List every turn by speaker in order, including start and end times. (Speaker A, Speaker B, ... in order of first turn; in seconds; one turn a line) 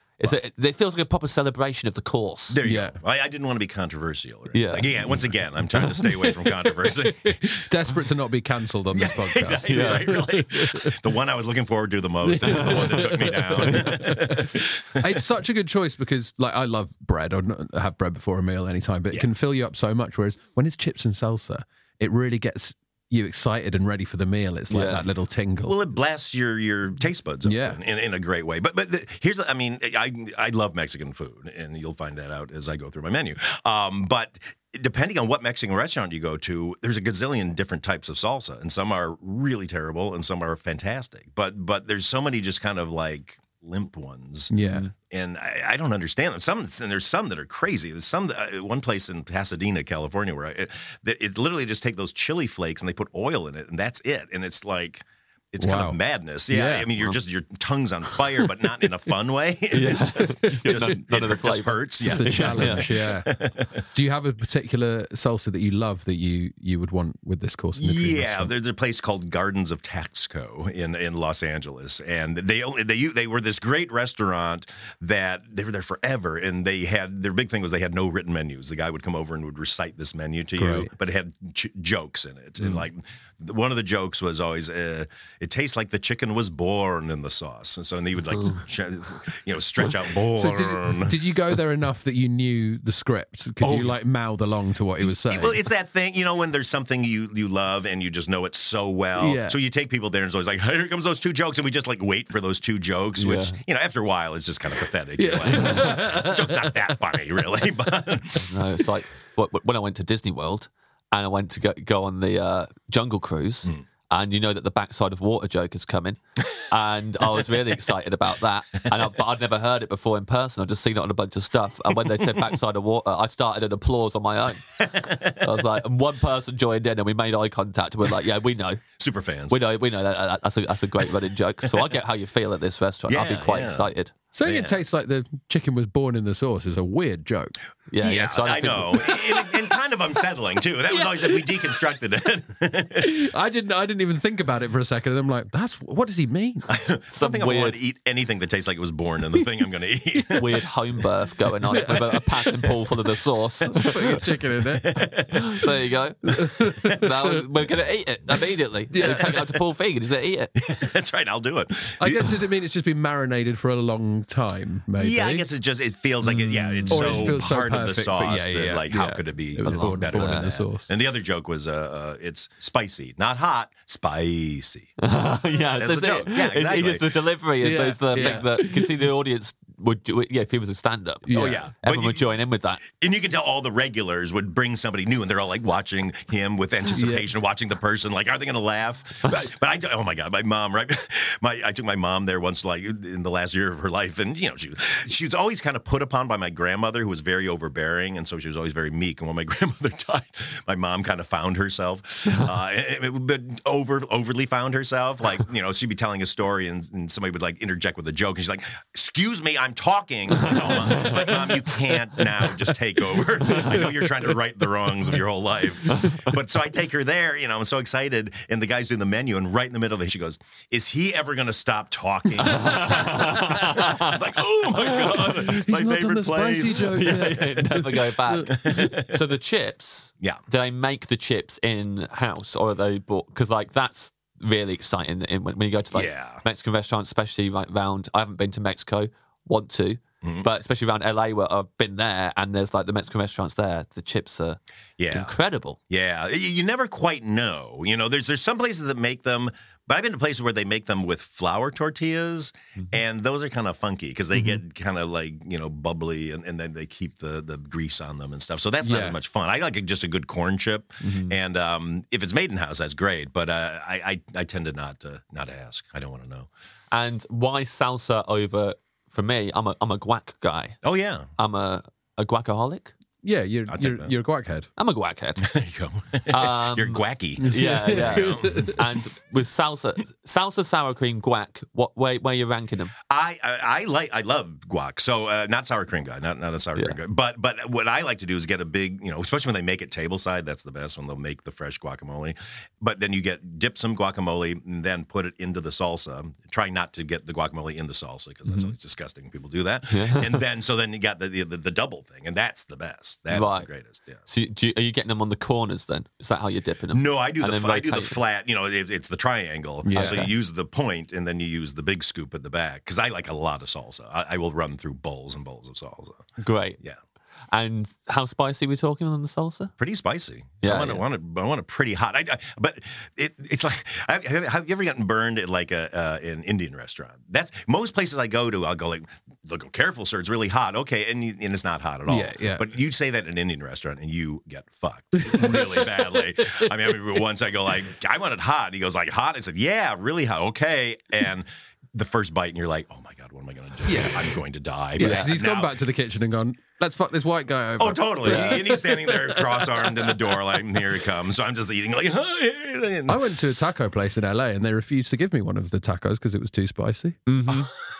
Speaker A: 0.2-2.6
Speaker B: 2.5-7.4
Speaker C: 2.6-3.0
Speaker A: 4.5-5.2
Speaker C: 5.8-11.0
Speaker B: 8.9-15.2
Speaker A: 9.7-10.2
Speaker C: 12.2-25.9
Speaker A: 12.4-14.1
Speaker A: 24.7-25.1
Speaker B: 25.7-44.5
Speaker C: 27.4-27.8
Speaker C: 44.5-44.9
Speaker B: 45.1-63.8
Speaker C: 55.6-56.9
Speaker A: 59.7-62.9
Speaker C: 60.5-61.0
Speaker C: 62.0-63.4
Speaker C: 63.9-68.5
Speaker B: 67.8-91.2
Speaker C: 80.6-80.9
Speaker C: 90.4-95.6
Speaker B: 93.6-94.0
Speaker B: 95.0-108.5
Speaker C: 99.2-99.6
Speaker A: 103.2-103.6
Speaker C: 105.2-107.0
Speaker A: 105.5-106.0
Speaker A: 108.4-116.2
Speaker A: 116.7-128.8
Speaker B: 124.8-125.5
Speaker B: 129.0-129.6
Speaker A: 129.5-134.1
Speaker B: 133.1-133.9
Speaker C: 134.3-137.6
Speaker B: 134.4-134.8
Speaker A: 137.9-139.2
Speaker B: 138.0-143.2
Speaker C: 143.0-146.7
Speaker B: 146.7-150.7
Speaker A: 147.1-147.8
Speaker A: 150.3-154.2
Speaker C: 151.7-152.6
Speaker B: 151.7-152.1
Speaker C: 153.7-155.1
Speaker B: 154.7-155.6
Speaker A: 155.4-160.5
Speaker C: 156.3-157.4
Speaker C: 158.9-159.4
Speaker B: 159.0-159.4
Speaker B: 160.6-162.3
Speaker C: 162.0-165.5
Speaker B: 165.0-174.9
Speaker A: 166.2-167.4
Speaker C: 166.9-170.9
Speaker A: 169.6-170.5
Speaker A: 175.0-182.8
Speaker B: 175.8-177.1
Speaker C: 177.6-179.1
Speaker C: 181.3-181.6
Speaker B: 181.3-182.2
Speaker B: 182.9-227.5
Speaker C: 186.9-187.3
Speaker A: 210.5-211.6
Speaker A: 213.5-214.0
Speaker A: 222.4-224.2
Speaker A: 224.8-225.3
Speaker C: 225.1-228.9
Speaker A: 226.7-244.6
Speaker B: 228.4-229.2
Speaker B: 235.9-236.4
Speaker B: 240.2-240.5
Speaker B: 245.0-245.4
Speaker A: 245.1-245.8
Speaker B: 245.9-266.5
Speaker C: 258.8-259.2
Speaker A: 261.1-261.3
Speaker A: 266.9-270.8
Speaker B: 270.8-271.3
Speaker A: 271.4-272.9
Speaker C: 273.2-274.7
Speaker B: 273.7-274.1
Speaker A: 274.8-275.5
Speaker B: 275.4-279.0
Speaker A: 276.3-282.9
Speaker C: 277.4-278.8
Speaker B: 283.1-304.2
Speaker A: 298.5-298.7
Speaker A: 299.9-300.4
Speaker A: 303.3-303.7
Speaker A: 304.3-308.2
Speaker B: 306.9-316.2
Speaker C: 309.8-310.3
Speaker A: 309.9-310.3
Speaker A: 316.4-316.8
Speaker A: 317.5-319.7
Speaker B: 319.8-345.8
Speaker A: 320.6-321.0
Speaker C: 332.1-332.7
Speaker C: 335.2-336.9
Speaker C: 343.9-344.3
Speaker A: 345.0-345.3
Speaker C: 345.0-350.4
Speaker B: 347.8-353.5
Speaker A: 348.2-348.6
Speaker C: 353.1-357.1
Speaker A: 357.3-357.7